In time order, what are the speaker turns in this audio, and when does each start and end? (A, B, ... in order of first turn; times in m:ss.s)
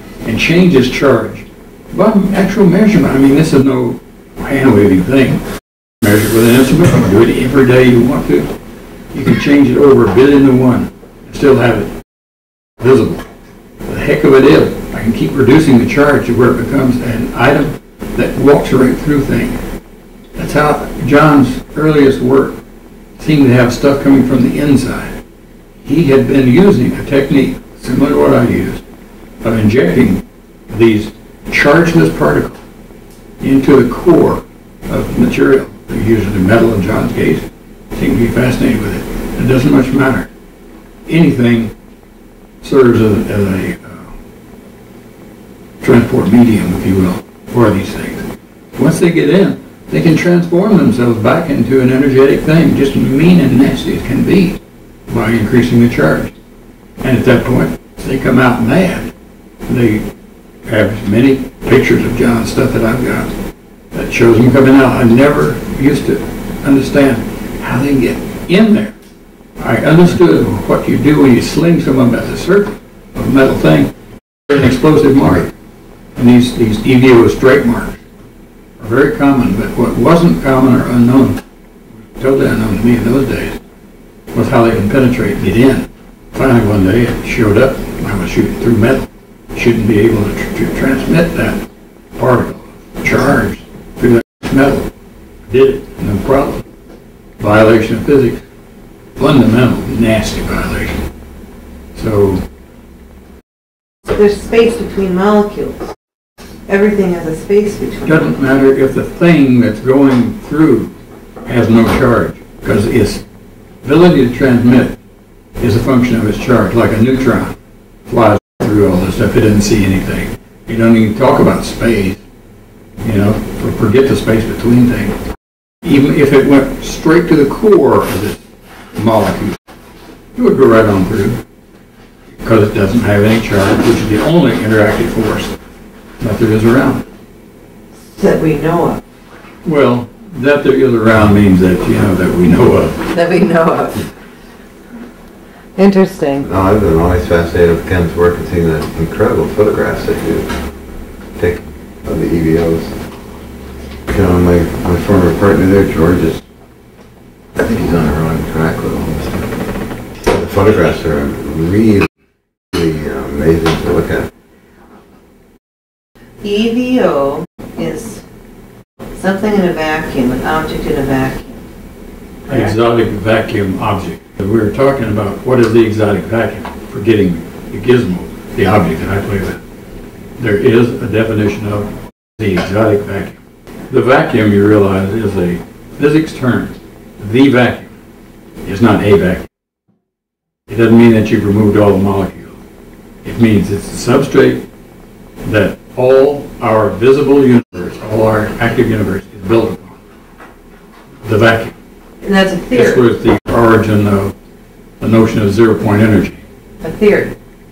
0:00.2-0:05.4 A
0:06.0-0:08.5 A
0:09.1-0:11.9 A
0:12.8-0:13.2 A
0:13.9-0:19.6 A
0:20.4-0:22.6 A
0:23.2-0:25.2 A
0:25.8-0:28.8 A
0:29.4-0:32.6 A
0:33.4-0:40.3 A
0:41.1-0:41.7 A
0:42.6-0:44.1 A
0:45.8-0:48.2 A
0:48.8-0:56.3 A
0:57.0-0:59.1 A
0:59.7-1:00.0 A
1:00.7-1:03.3 A
1:03.9-1:08.9 A
1:09.6-1:13.9 A
1:14.5-1:15.5 A
1:16.2-1:18.0 A
1:18.8-1:21.4 A
1:22.1-1:23.6 A
1:24.3-1:31.6 A
1:32.2-1:34.9 A
1:35.5-1:36.6 A
1:37.4-1:38.4 A
1:39.2-1:40.9 A
1:42.0-1:42.4 A
1:44.0-1:45.9 B
1:46.7-1:48.3 B
1:48.0-1:50.9 A
1:51.5-1:53.2 A
1:53.8-1:55.0 A
1:55.6-1:57.6 A
1:58.1-2:02.2 A
2:03.0-2:05.2 A
2:05.8-2:08.4 A
2:09.0-2:09.6 A
2:10.4-2:11.4 A
2:12.4-2:15.6 A
2:16.2-2:17.0 A
2:18.1-2:19.0 B
2:19.6-2:23.0 A
2:23.1-2:24.1 B
2:25.8-2:26.5 B
2:26.5-2:30.5 C
2:31.4-2:33.0 C
2:34.1-2:36.4 C
2:37.6-2:39.5 C
2:40.2-2:42.1 C
2:42.7-2:44.3 C
2:46.4-2:48.2 B
2:49.1-2:51.6 B
2:52.5-2:52.7 B
2:52.5-2:59.6 A
3:00.4-3:07.9 A
3:08.6-3:09.4 A
3:10.7-3:12.6 A
3:13.2-3:14.7 A
3:15.5-3:20.0 A
3:21.2-3:21.7 A
3:22.2-3:23.0 B
3:22.7-3:24.4 A
3:25.0-3:26.4 A
3:26.8-3:27.4 B